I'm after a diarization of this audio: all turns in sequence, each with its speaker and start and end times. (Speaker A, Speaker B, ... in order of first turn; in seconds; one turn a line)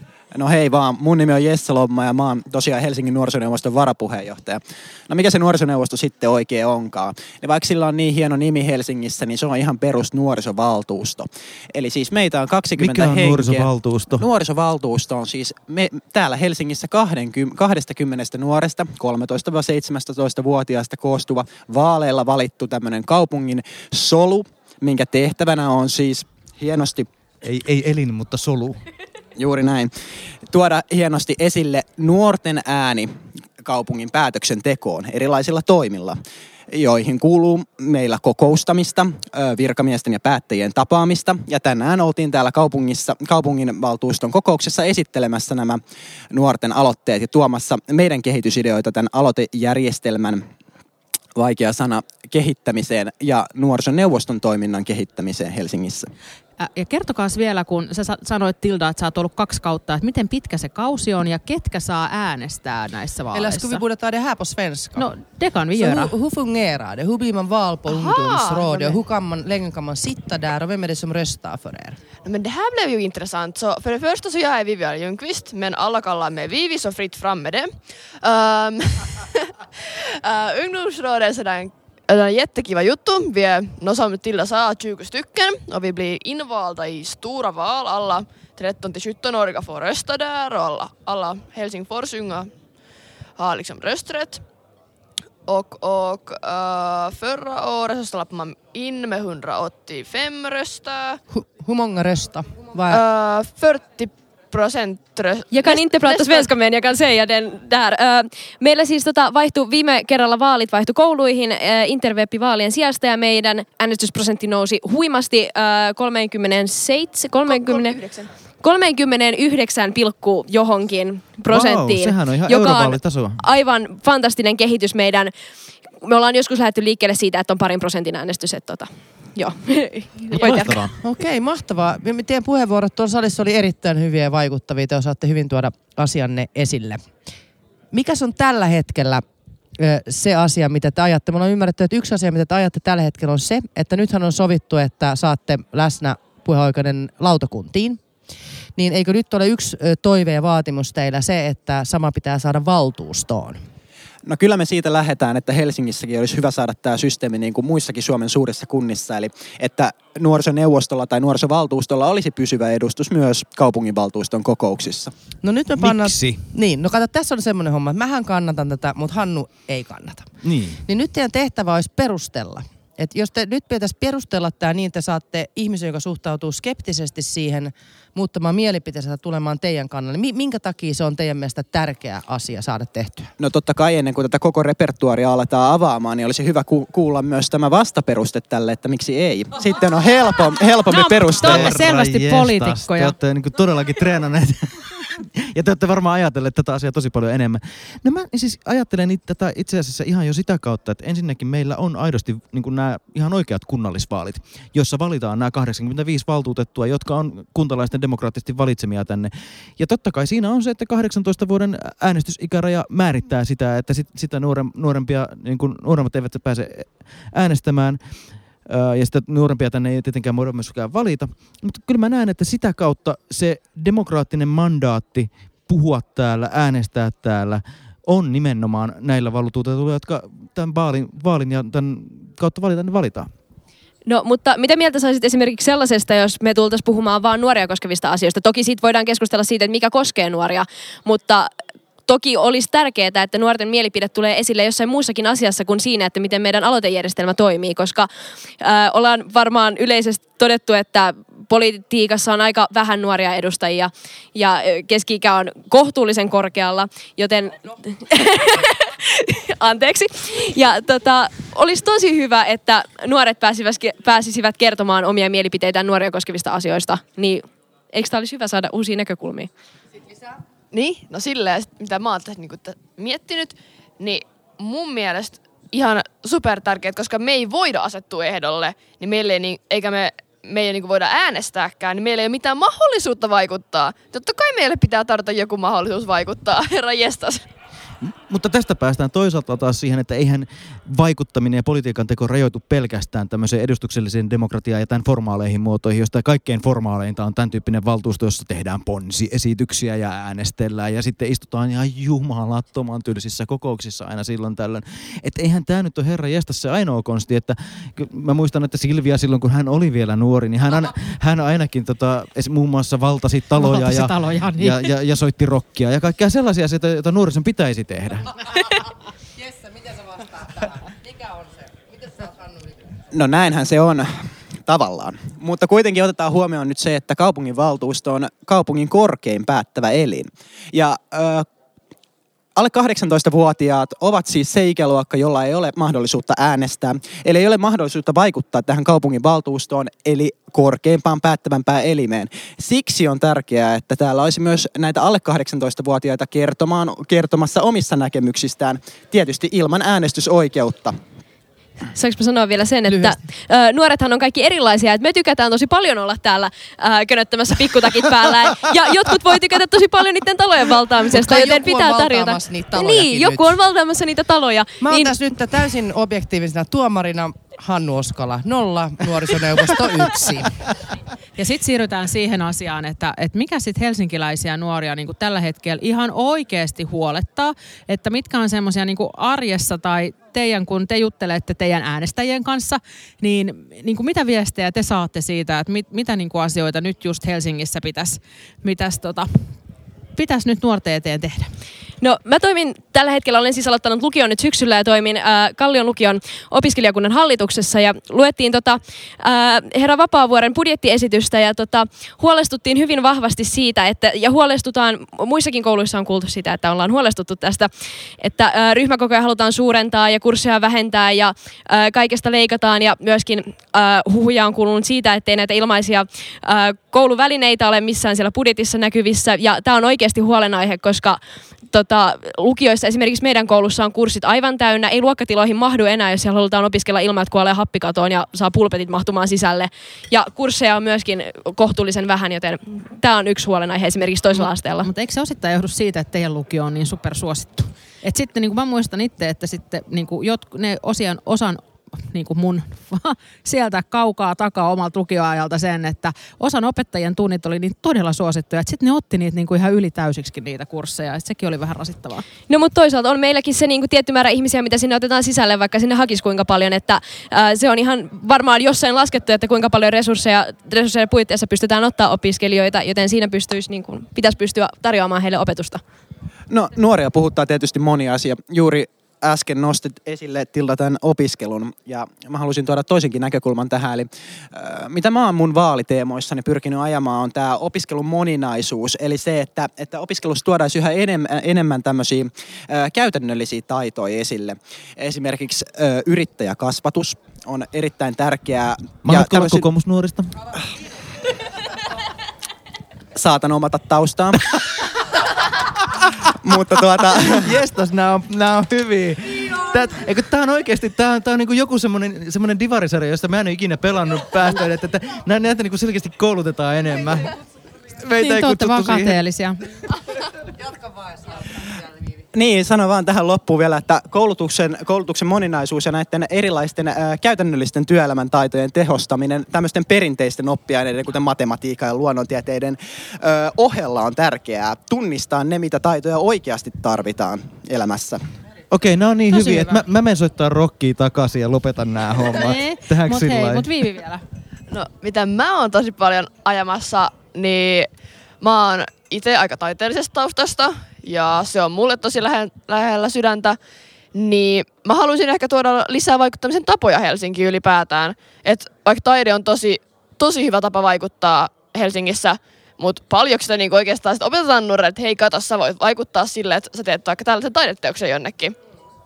Speaker A: 0.3-27.1
Speaker B: 12.8-14.2
Speaker B: 27.4-28.8
Speaker A: 29.4-29.9
Speaker A: 30.5-36.2
Speaker A: 36.7-45.8
Speaker A: 46.3-50.4
Speaker A: 51.4-56.1
Speaker C: 56.6-63.8
Speaker D: 63.3-65.1
Speaker C: 65.0-66.1
Speaker D: 65.8-72.0
Speaker E: 67.9-69.0
Speaker E: 72.2-92.5
Speaker E: 93.4-94.4
Speaker E: 95.5-101.2
Speaker D: 101.3-103.0
Speaker E: 102.9-106.5
Speaker F: 105.5-118.0
Speaker E: 117.5-118.3
Speaker F: 118.6-125.3
Speaker B: 121.5-123.4
Speaker F: 126.0-130.8
Speaker B: 130.3-131.0
Speaker D: 131.0-137.0
Speaker D: 137.9-139.2
Speaker D: 139.8-148.0
Speaker D: 148.8-153.6
Speaker A: 154.2-165.1
Speaker D: 165.4-170.3
Speaker B: 165.8-166.4
Speaker B: 170.4-170.8
Speaker D: 170.9-183.3
Speaker A: 183.4-191.6
Speaker C: 190.9-193.1
Speaker B: 191.4-218.0
Speaker B: 218.7-233.3
Speaker F: 234.1-241.5
Speaker F: 242.1-248.1
Speaker F: 248.6-269.5
Speaker E: 270.7-287.5
Speaker B: 288.0-318.4
Speaker C: 313.6-314.9
Speaker A: 323.1-331.5
Speaker A: 332.6-351.0
Speaker F: 351.9-365.2
Speaker D: 361.1-363.6
Speaker D: 364.8-370.6
Speaker C: 371.4-389.5
Speaker C: 390.2-391.5
Speaker F: 392.0-434.9
Speaker C: 434.4-452.2
Speaker F: 452.5-465.8
Speaker A: 466.5-489.7
Speaker B: 489.1-490.5
Speaker A: 493.1-494.6
Speaker A: 496.4-497.5
Speaker B: 497.3-507.4
Speaker B: 508.0-509.2
Speaker C: 508.2-509.7
Speaker A: 512.3-528.2
Speaker B: 528.7-533.7
Speaker C: 529.3-529.8
Speaker C: 532.4-534.2
Speaker E: 534.7-537.9
Speaker E: 538.4-543.6
Speaker E: 544.1-558.6